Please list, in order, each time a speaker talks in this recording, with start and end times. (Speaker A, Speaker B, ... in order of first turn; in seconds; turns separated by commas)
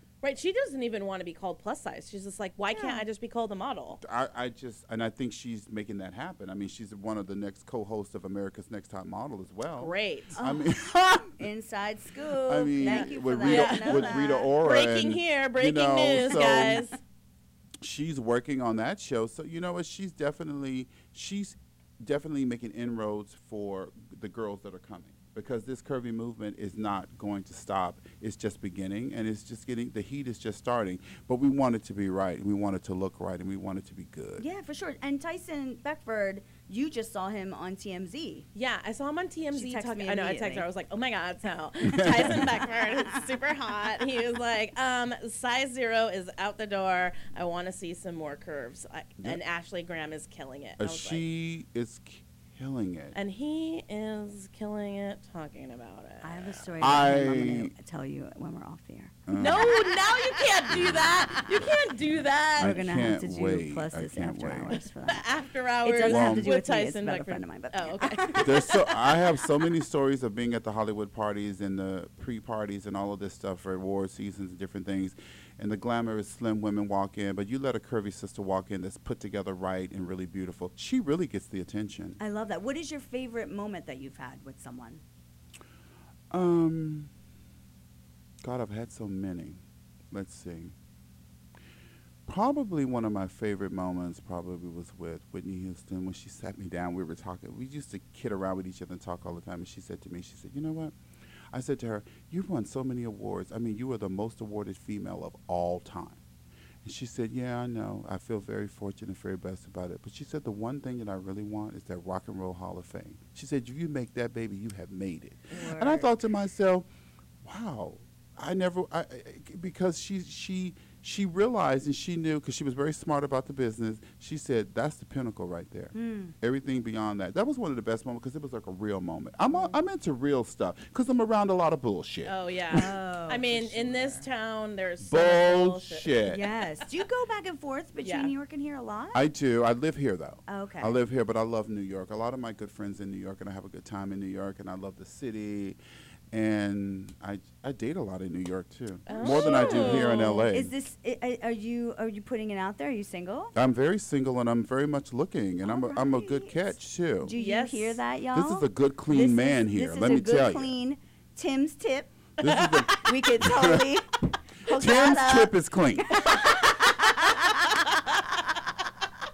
Speaker A: 0.2-4.0, Speaker B: 2.7-3.0, Speaker C: 4.0-11.4, Speaker A: 9.8-10.3, Speaker B: 10.4-10.7, Speaker B: 11.3-14.5, Speaker C: 12.5-16.8, Speaker A: 12.8-17.0, Speaker B: 16.3-16.9, Speaker C: 17.8-34.5, Speaker B: 34.4-38.5, Speaker A: 38.5-51.2, Speaker B: 39.5-40.7, Speaker C: 41.8-42.5, Speaker B: 42.3-43.2, Speaker C: 50.8-53.2, Speaker A: 53.1-56.6, Speaker B: 56.2-60.1, Speaker C: 56.8-57.7, Speaker C: 59.3-59.9, Speaker A: 59.4-62.8, Speaker C: 60.7-61.7, Speaker B: 60.8-61.4, Speaker C: 62.6-64.8, Speaker B: 62.6-65.3, Speaker A: 64.7-68.8, Speaker B: 65.8-68.7, Speaker C: 66.0-66.5, Speaker C: 68.4-82.2, Speaker B: 82.2-85.0, Speaker C: 86.3-87.1, Speaker C: 88.4-90.8, Speaker C: 92.3-101.0, Speaker C: 101.5-106.2, Speaker C: 106.8-116.9, Speaker B: 115.5-116.1, Speaker C: 117.4-132.3, Speaker B: 125.9-126.3, Speaker B: 129.5-129.8, Speaker A: 132.3-136.2, Speaker B: 132.7-134.3, Speaker C: 135.0-136.4, Speaker B: 136.3-139.3, Speaker A: 138.0-138.3, Speaker C: 139.1-145.8, Speaker B: 140.5-140.9, Speaker C: 146.3-150.7, Speaker A: 149.1-150.5, Speaker B: 149.1-153.5, Speaker C: 153.6-157.3, Speaker B: 155.7-156.6, Speaker B: 157.2-162.1, Speaker A: 157.3-158.0, Speaker C: 158.3-160.7, Speaker C: 162.4-164.0, Speaker B: 162.9-164.1, Speaker B: 164.7-165.6, Speaker C: 164.7-166.6, Speaker B: 166.1-167.8